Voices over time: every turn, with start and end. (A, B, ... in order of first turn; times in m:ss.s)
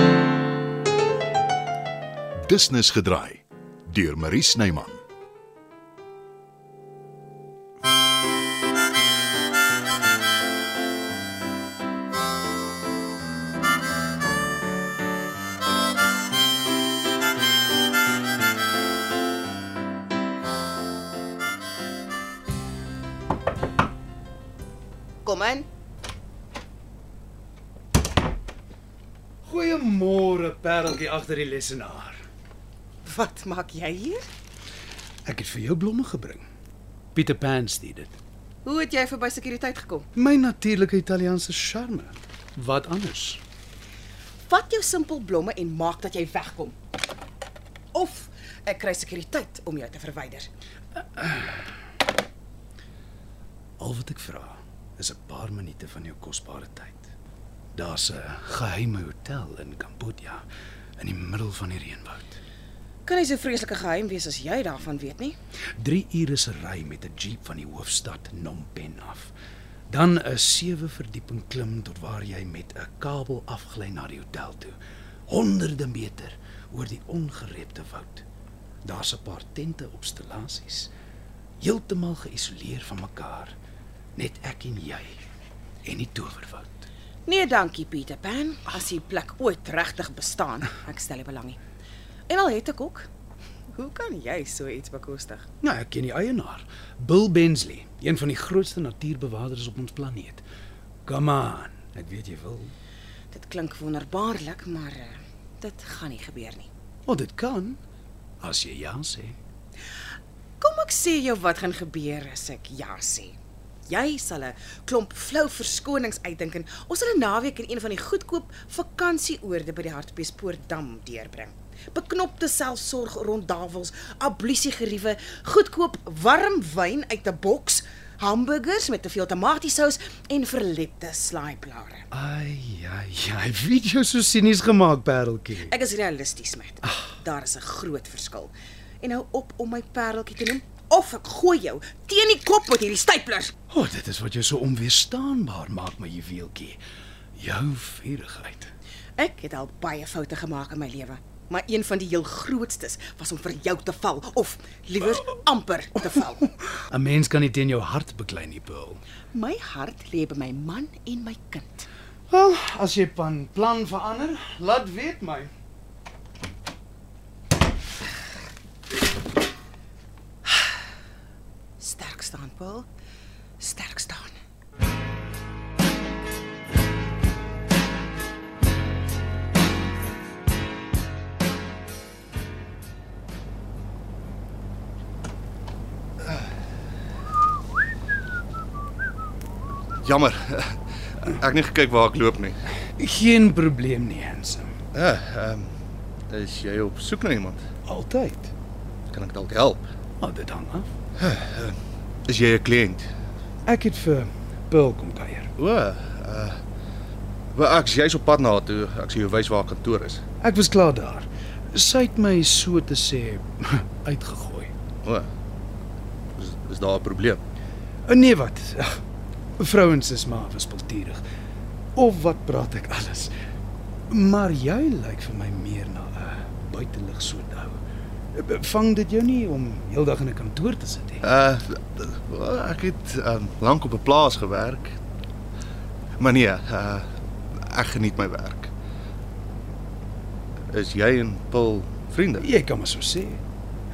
0:02.4-0:05.0 A
0:25.2-0:25.7 B
0:29.4-0:32.2 C
0:33.0-0:34.2 B
0:35.2-0:36.4 C
0:37.1-0:38.2 C
0:38.6-0:40.1 B
0:40.1-0:43.4 C
0:44.5-0:46.7 B
0:47.9-0:50.5 B
0:51.0-0:51.7 C
0:53.8-0:57.1 C
0:57.7-1:02.4 C
1:03.0-1:05.4 B
1:05.8-1:09.3 C
1:09.9-1:18.2 C
1:18.8-1:20.9 C
1:21.6-1:23.6 C
1:24.2-1:25.2 C
1:25.8-1:26.9 C
1:27.3-1:31.6 B
1:32.3-1:33.1 B
1:33.7-1:35.5 B
1:35.6-1:40.4 C
1:41.0-1:42.7 C
1:43.3-1:46.7 B
1:47.0-1:47.8 C
1:48.4-1:49.4 C
1:50.6-1:53.4 B
1:53.9-2:12.0 B
2:12.1-2:15.7 C
2:15.6-2:23.5 B
2:23.7-2:26.8 C
2:27.3-2:28.7 C
2:29.2-2:36.5 B
2:36.9-2:39.0 C
2:39.3-2:41.9 B
2:42.3-2:45.5 C
2:51.8-2:52.9 B
2:53.6-2:54.3 B
3:10.0-3:12.6 D
3:13.0-3:14.7 C
3:14.9-3:15.7 D
3:16.3-3:17.7 D
3:17.8-3:18.5 C
3:19.1-3:19.8 D
3:20.2-3:20.9 C
3:21.2-3:23.1 D
3:23.6-3:25.5 C
3:25.6-3:26.6 D
3:27.5-3:30.2 D
3:30.4-3:34.7 C
3:35.0-3:35.3 D
3:36.4-3:37.4 D
3:38.0-3:39.0 C
3:39.6-3:41.2 C
3:41.9-3:43.3 C
3:44.1-3:47.8 C
3:48.3-3:51.2 C
3:51.2-3:55.0 D
3:56.2-3:58.7 D
4:00.7-4:02.4 D
4:02.4-4:03.4 C